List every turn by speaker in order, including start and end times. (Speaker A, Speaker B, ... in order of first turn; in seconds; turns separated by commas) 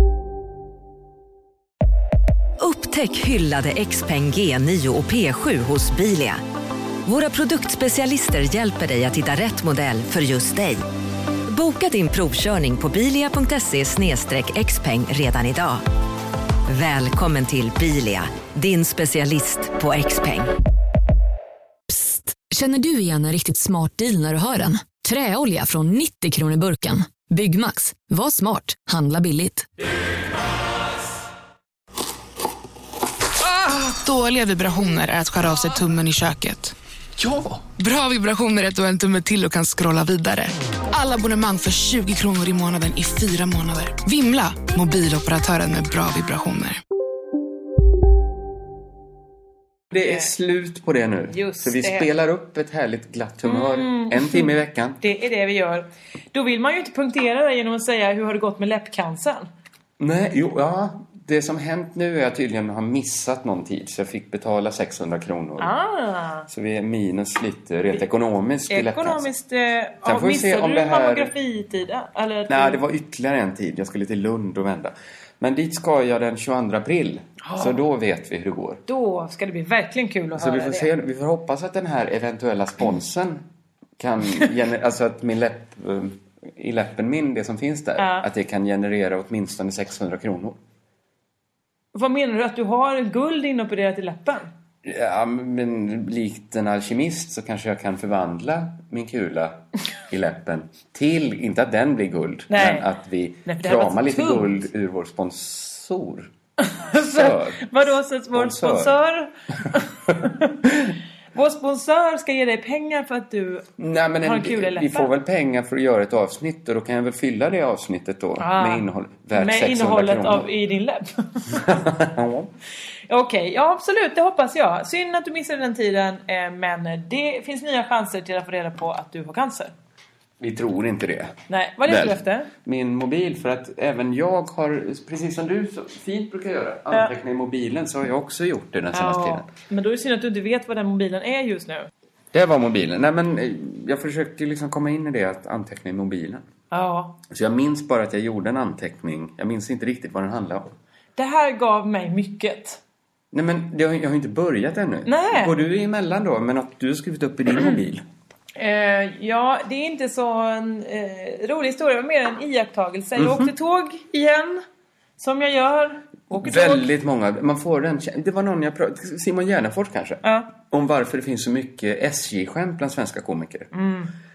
Speaker A: 2.6-6.4, Speaker A: 7.0-10.8, Speaker A: 11.5-15.8, Speaker A: 16.7-20.5, Speaker B: 21.9-29.7, Speaker C: 33.4-36.7, Speaker D: 37.2-37.6, Speaker C: 37.7-46.8, Speaker D: 49.9-55.0, Speaker E: 51.3-52.1, Speaker E: 53.4-59.5, Speaker D: 60.0-65.7, Speaker E: 65.6-66.5, Speaker D: 66.5-69.2, Speaker E: 68.7-72.8, Speaker D: 70.0-71.3, Speaker D: 72.5-78.8, Speaker E: 77.4-77.8, Speaker E: 78.9-80.9, Speaker D: 80.3-83.4, Speaker D: 84.0-90.6, Speaker E: 88.0-88.2, Speaker E: 91.9-94.5, Speaker D: 94.8-106.3, Speaker E: 102.5-102.8, Speaker E: 103.5-104.5, Speaker E: 106.6-110.5, Speaker D: 106.9-107.8, Speaker D: 108.3-109.0, Speaker D: 110.6-110.9, Speaker E: 111.3-113.7, Speaker D: 113.8-120.5, Speaker E: 114.2-115.1, Speaker E: 118.4-121.6, Speaker D: 121.5-122.5, Speaker E: 123.1-129.7, Speaker D: 130.4-139.5, Speaker E: 131.5-132.5, Speaker E: 138.9-141.9, Speaker D: 142.3-146.4, Speaker E: 146.7-147.2, Speaker D: 147.3-150.7, Speaker E: 151.2-152.8, Speaker D: 153.3-158.1, Speaker E: 155.1-155.5, Speaker E: 158.6-164.6, Speaker D: 163.2-163.5, Speaker E: 165.2-166.9, Speaker D: 166.3-173.7, Speaker E: 170.2-170.5, Speaker E: 173.7-174.1